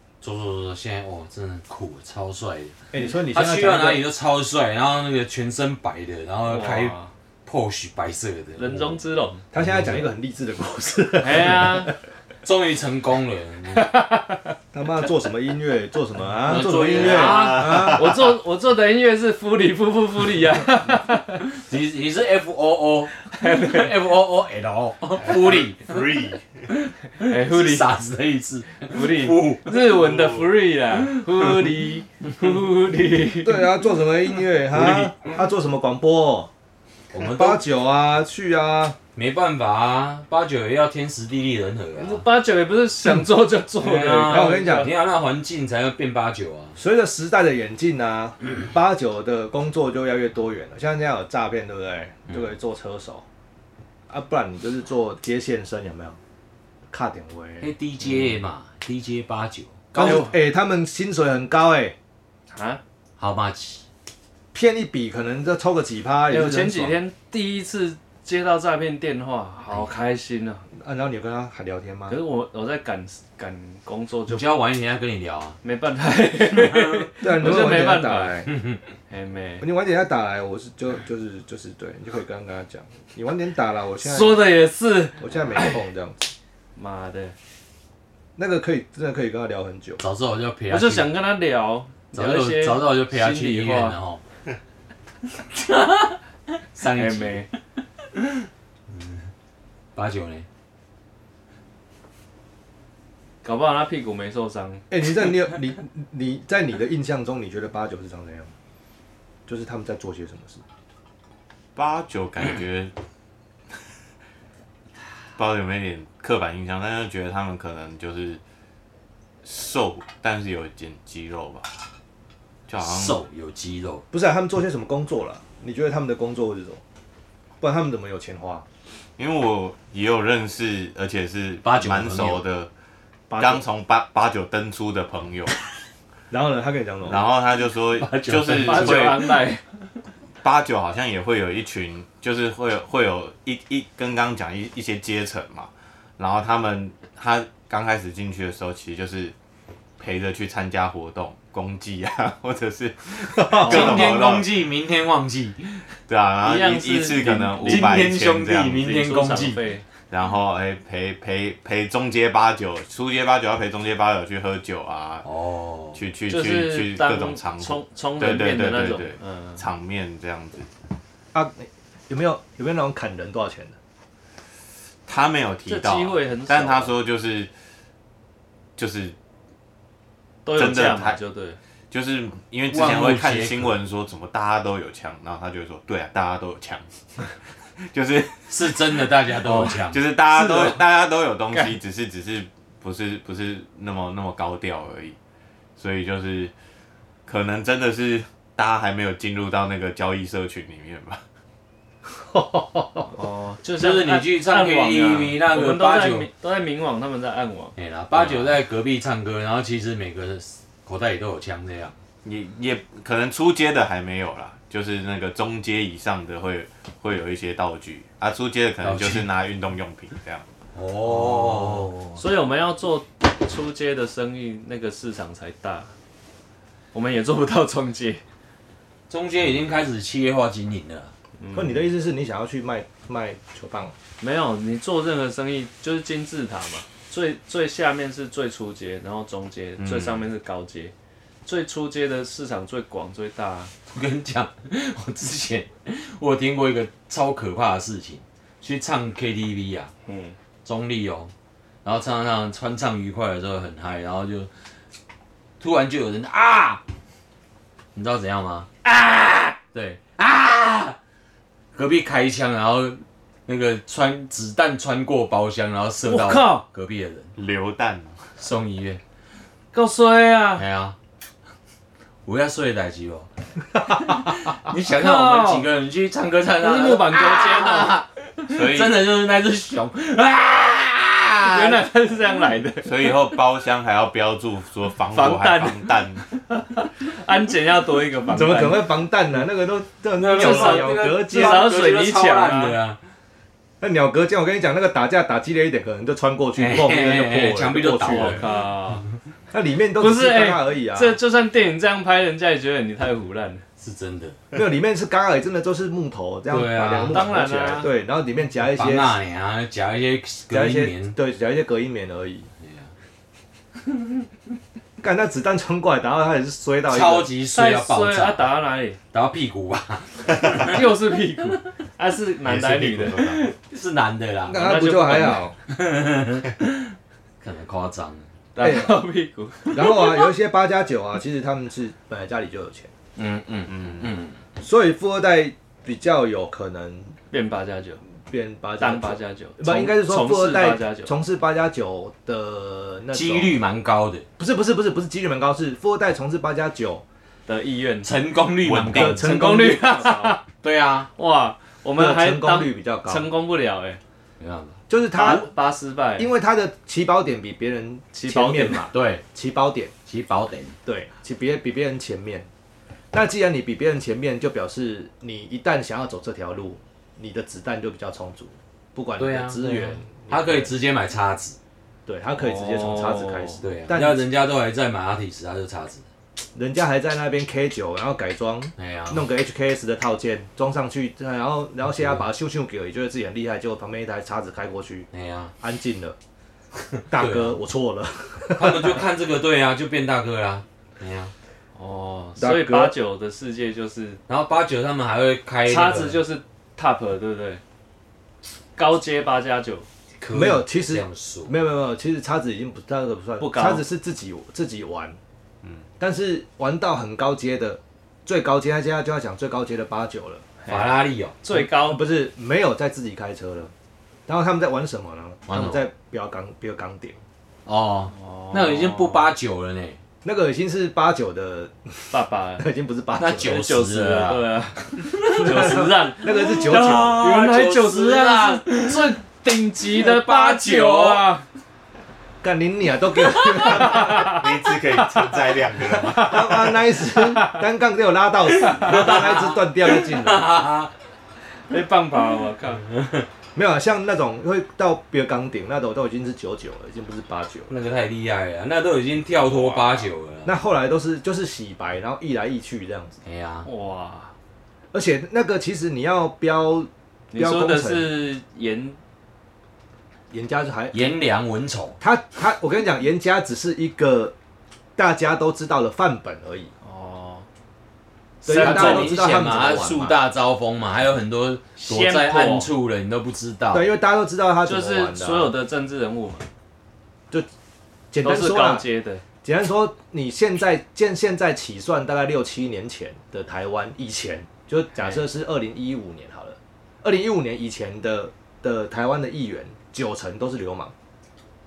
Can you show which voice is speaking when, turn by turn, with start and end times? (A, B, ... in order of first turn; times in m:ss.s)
0:00.2-0:02.8 A
0:02.9-0:04.0 B
0:03.3-0:09.0 A
0:06.5-0:07.1 C
0:08.6-0:09.4 C
0:09.5-0:12.0 B
0:09.6-0:10.1 A
0:11.2-0:11.9 C
0:12.4-0:13.9 A
0:13.7-0:14.5 C
0:14.7-0:18.0 B
0:16.4-0:18.0 A
0:16.5-0:21.5 C
0:17.3-0:18.3 D
0:21.6-0:26.1 A
0:23.2-0:24.0 C
0:25.2-0:26.6 D
0:27.2-0:27.9 C
0:27.2-0:29.7 A
0:28.8-0:33.6 C
0:29.8-0:30.5 D
0:33.4-0:36.5 B
0:34.7-0:35.3 A
0:37.1-0:37.6 A
0:37.2-0:39.0 B
0:39.2-0:42.2 A
0:42.0-0:44.9 C
0:43.8-0:46.8 A
0:44.3-0:44.9 B
0:46.8-0:53.2 B
0:54.1-0:56.2 B
0:56.9-0:57.7 B
0:57.6-1:00.2 A
0:59.9-1:00.4 C
0:59.9-1:02.0 B
1:02.5-1:02.8 C
1:03.2-1:03.8 A
1:04.5-1:07.0 B
1:06.3-1:10.7 C
1:10.7-1:12.2 B
1:12.1-1:14.5 C
1:14.3-1:15.6 A
1:15.6-1:18.4 C
1:16.5-1:17.1 A
1:17.2-1:18.5 B
1:19.1-1:19.6 C
1:19.6-1:24.5 B
1:24.0-1:25.8 C
1:25.2-1:26.2 B
1:26.8-1:27.4 C
1:28.4-1:30.0 B
1:30.0-1:31.1 A
1:30.7-1:34.0 C
1:32.1-1:34.2 A
1:35.5-1:36.2 A
1:36.7-1:37.5 A
1:36.8-1:37.5 C
1:38.9-1:39.3 A
1:40.0-1:40.5 A
1:43.4-1:44.8 C
1:44.9-1:48.5 B
1:49.5-1:50.6 B
1:51.8-1:52.9 D
1:55.4-1:58.4 D
1:59.4-2:01.7 D
2:02.7-2:03.2 D
2:02.8-2:04.0 A
2:04.1-2:06.8 B
2:07.6-2:08.7 B
2:09.2-2:12.7 D
2:11.6-2:12.4 A
2:13.3-2:13.6 B
2:13.4-2:15.6 D
2:16.3-2:17.2 B
2:17.1-2:19.4 D
2:18.0-2:19.4 A
2:18.5-2:19.6 C
2:20.4-2:29.3 D
2:30.0-2:34.5 D
2:33.3-2:34.1 B
2:33.6-2:35.9 A
2:33.8-2:34.0 C
2:36.1-2:38.9 D
2:36.4-2:38.2 C
2:37.6-2:39.6 A
2:38.8-2:39.8 C
2:40.1-2:45.3 D
2:45.2-2:46.0 A
2:45.9-2:50.7 D
2:46.3-2:49.6 C
2:51.3-2:53.8 B
2:55.1-2:57.5 D
2:55.7-2:57.0 C
2:58.8-2:59.2 D
3:00.4-3:01.6 C
3:00.5-3:01.2 D
3:01.9-3:15.2 D
3:02.7-3:03.8 A
3:08.5-3:10.1 A
3:10.3-3:10.8 C
3:15.8-3:16.5 D
3:17.3-3:21.2 D
3:22.2-3:23.1 B
3:23.1-3:27.8 C
3:23.8-3:26.3 A
3:27.8-3:32.0 A
3:28.1-3:28.5 D
3:32.2-3:40.5 D
3:38.8-3:39.3 A
3:40.7-3:42.0 A
3:41.2-3:42.1 B
3:42.2-3:45.9 C
3:46.9-3:48.2 C
3:49.1-3:51.1 A
3:51.4-3:51.9 C
3:51.5-3:53.9 B
3:54.2-4:00.9 C
3:59.8-4:00.3 D
4:01.4-4:03.7 C
4:03.9-4:09.9 A
4:10.1-4:10.4 C
4:10.6-4:11.3 A
4:11.8-4:14.5 A
4:15.6-4:16.8 A
4:17.9-4:18.7 A
4:18.8-4:19.6 C
4:19.7-4:21.0 A
4:21.7-4:27.3 A
4:26.1-4:26.6 C
4:27.4-4:28.2 D
4:28.4-4:29.0 A
4:29.7-4:30.6 C
4:30.6-4:31.0 A
4:32.2-4:33.3 A
4:33.9-4:41.9 A
4:34.8-4:35.7 C
4:36.6-4:38.0 C
4:38.5-4:39.0 D
4:41.5-4:43.1 C
4:42.8-4:46.3 D
4:45.1-4:49.0 C
4:48.4-4:51.7 B
4:50.2-4:53.0 A
4:50.3-4:52.8 C
4:53.8-4:58.5 B
4:56.6-4:58.6 A
4:58.0-4:59.0 C
4:59.5-5:01.2 B
5:00.0-5:03.6 C
5:03.8-5:04.4 A
5:04.5-5:09.2 B
5:06.5-5:07.4 A
5:07.0-5:07.9 C
5:08.6-5:11.2 A
5:10.5-5:12.5 B
5:12.6-5:12.9 A
5:15.0-5:17.3 B
5:16.9-5:18.5 A
5:17.5-5:19.0 C
5:19.1-5:20.9 A
5:20.5-5:23.5 C
5:22.4-5:23.5 D
5:23.5-5:24.9 A
5:24.5-5:25.6 B
5:24.5-5:25.4 C
5:25.7-5:28.3 A
5:28.6-5:30.2 C
5:28.6-5:29.0 B
5:29.7-5:32.9 B
5:33.2-5:34.4 A
5:33.7-5:34.2 D
5:34.6-5:37.2 B
5:37.3-5:38.0 C
5:38.3-5:43.6 B
5:38.8-5:41.1 C
5:43.1-5:44.3 A
5:44.4-5:47.0 B
5:47.5-5:48.1 C
5:48.0-5:51.1 A
5:48.6-5:49.2 D
5:48.9-5:49.9 B
5:49.1-5:50.4 C
5:51.2-5:54.0 C
5:52.0-5:53.3 B
5:54.4-5:54.8 A
5:54.9-5:55.5 B
5:55.1-5:56.3 C
5:56.2-5:59.9 B
5:58.1-5:58.9 C
5:58.9-5:59.2 A
6:00.1-6:00.8 A
6:00.8-6:02.5 B
6:03.1-6:10.7 B
6:09.2-6:11.6 A
6:12.1-6:14.2 B
6:12.4-6:13.6 C
6:13.6-6:16.0 A
6:16.5-6:25.1 B
6:18.8-6:19.2 A
6:21.9-6:22.3 A
6:25.1-6:25.5 A
6:25.6-6:26.2 B
6:26.8-6:27.6 A
6:27.1-6:29.0 B
6:28.6-6:31.3 A
6:31.8-6:34.2 C
6:32.4-6:33.0 B
6:34.3-6:36.2 A
6:35.7-6:37.6 C
6:38.8-6:39.9 C
6:40.2-6:41.5 A
6:40.3-6:45.2 B
6:43.4-6:43.9 C
6:46.0-6:50.4 B
6:50.6-6:52.0 C
6:50.7-6:51.6 A
6:51.5-6:53.7 B
6:54.3-6:57.2 B
6:55.5-6:55.8 A
6:57.7-7:00.0 A
6:58.1-6:59.3 C
7:00.2-7:03.6 B
7:02.1-7:02.7 C
7:03.2-7:04.5 A
7:03.4-7:11.5 C
7:05.1-7:05.8 A
7:05.3-7:07.2 B
7:06.3-7:09.2 A
7:09.8-7:11.3 A
7:12.4-7:14.4 B
7:13.5-7:14.5 C
7:13.9-7:16.5 D
7:15.1-7:17.6 C
7:16.1-7:20.5 B
7:18.7-7:20.9 A
7:21.7-7:22.8 C
7:22.9-7:23.3 A
7:23.6-7:27.7 B
7:27.7-7:30.5 A
7:29.4-7:30.1 C
7:30.4-7:33.2 B
7:33.2-7:33.7 A
7:33.6-7:34.3 C
7:34.9-7:38.1 B
7:37.3-7:39.0 C
7:40.3-7:41.1 B
7:40.9-7:42.0 A
7:42.0-7:44.4 B
7:45.0-7:46.7 B
7:46.8-7:47.5 C
7:48.4-7:49.1 C
7:48.4-7:50.2 B
7:48.5-7:53.9 A
7:51.8-7:52.7 C
7:53.7-7:55.6 B
7:54.6-7:56.5 C
7:58.1-7:58.8 B
7:58.2-7:59.2 C
7:59.4-8:10.9 B